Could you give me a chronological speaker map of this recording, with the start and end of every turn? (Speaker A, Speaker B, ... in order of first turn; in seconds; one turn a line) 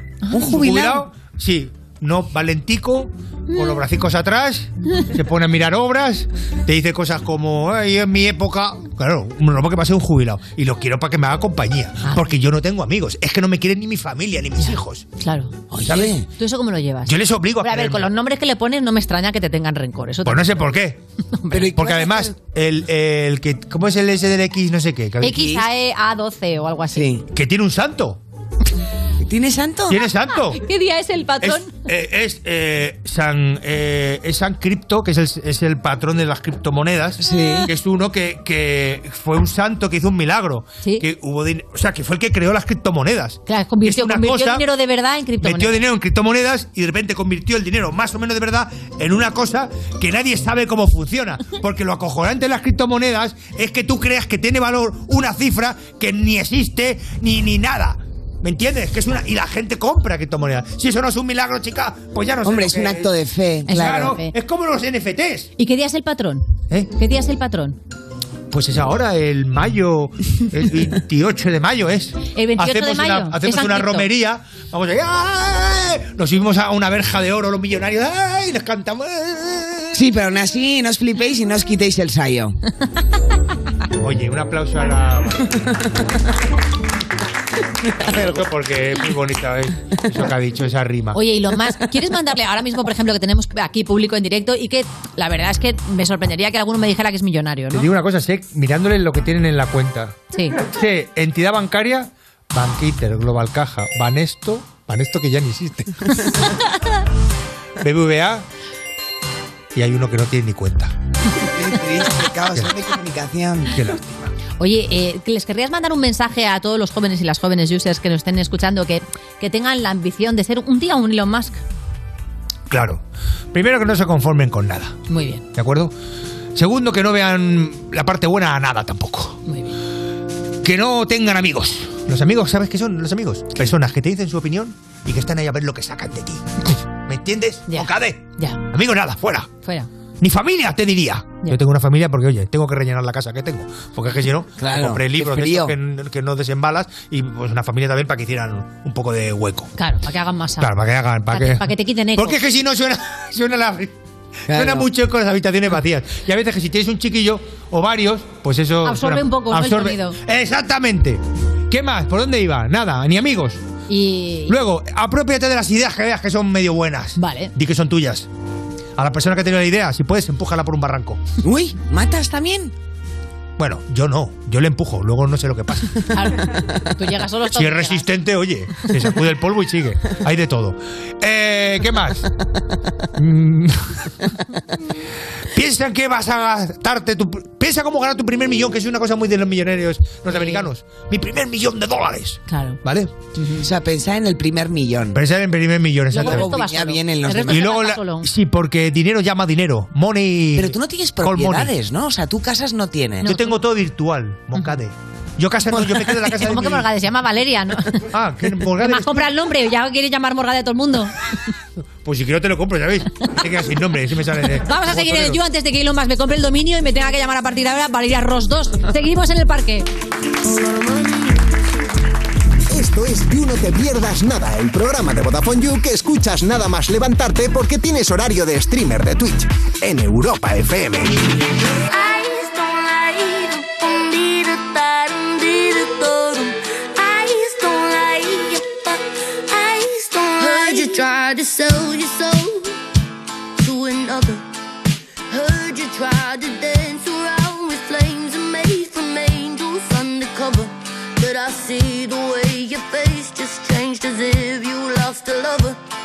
Speaker A: 0.2-0.6
Speaker B: 0.3-1.1
Speaker C: 0.4-15.0
Speaker A: 3.5-3.8
Speaker A: 12.0-12.3
Speaker A: 14.6-15.6
Speaker B: 15.7-16.2
Speaker C: 15.8-16.1
Speaker A: 16.2-20.8
Speaker C: 17.0-18.1
Speaker C: 20.2-21.0
Speaker A: 21.4-21.8
Speaker B: 21.5-22.3
Speaker C: 21.7-25.4
Speaker A: 25.2-27.1
Speaker B: 25.2-25.7
Speaker B: 26.9-27.2
Speaker C: 27.3-28.2
Speaker B: 29.2-30.1
Speaker C: 29.9-30.6
Speaker A: 30.5-31.7
Speaker C: 31.4-44.6
Speaker B: 37.2-37.7
Speaker A: 43.5-45.8
Speaker C: 45.4-63.1
Speaker B: 62.4-64.2
Speaker A: 63.6-64.3
Speaker C: 63.7-65.5
Speaker A: 65.6-67.8
Speaker C: 68.5-80.0
Speaker A: 72.3-74.1
Speaker B: 79.9-82.6
Speaker C: 84.0-85.8
Speaker B: 88.0-88.4
Speaker C: 88.0-91.2
Speaker A: 91.1-97.9
Speaker C: 97.7-105.9
Speaker C: 107.8-108.4
Speaker C: 109.7-110.9
Speaker B: 111.4-113.8
Speaker C: 113.7-114.3
Speaker A: 114.6-121.6
Speaker C: 122.7-123.0
Speaker C: 123.5-125.0
Speaker A: 125.1-125.4
Speaker C: 125.5-125.9
Speaker C: 126.5-129.4
Speaker A: 129.4-129.8
Speaker C: 130.6-139.5
Speaker A: 137.7-138.6
Speaker A: 139.6-139.9
Speaker C: 140.2-149.7
Speaker B: 144.6-145.8
Speaker A: 149.8-150.7
Speaker C: 150.6-153.9
Speaker A: 151.3-152.4
Speaker B: 154.5-154.9
Speaker C: 154.5-163.6
Speaker A: 158.8-160.2
Speaker A: 163.9-164.6
Speaker C: 164.5-168.3
Speaker A: 167.2-167.5
Speaker C: 169.0-171.2
Speaker B: 171.4-172.7
Speaker C: 173.6-176.0
Speaker A: 176.1-178.1
Speaker C: 177.5-182.3
Speaker C: 183.2-184.1
Speaker C: 185.5-193.1
Speaker A: 190.3-190.7
Speaker A: 192.5-192.8
Speaker A: 193.3-193.7
Speaker B: 193.6-195.2
Speaker C: 195.1-196.6
Speaker A: 196.1-198.3
Speaker B: 196.1-197.7
Speaker C: 197.4-201.7
Speaker B: 200.6-203.3
Speaker A: 203.2-203.6
Speaker C: 203.2-206.9
Speaker A: 206.3-208.0
Speaker C: 208.1-209.3
Speaker A: 208.8-211.1
Speaker C: 212.0-215.4
Speaker A: 214.6-219.9
Speaker D: 220.5-221.4
Speaker E: 222.7-231.2
Speaker D: 231.9-239.0
Speaker D: 239.5-242.8
Speaker D: 243.6-244.4
Speaker D: 245.3-255.8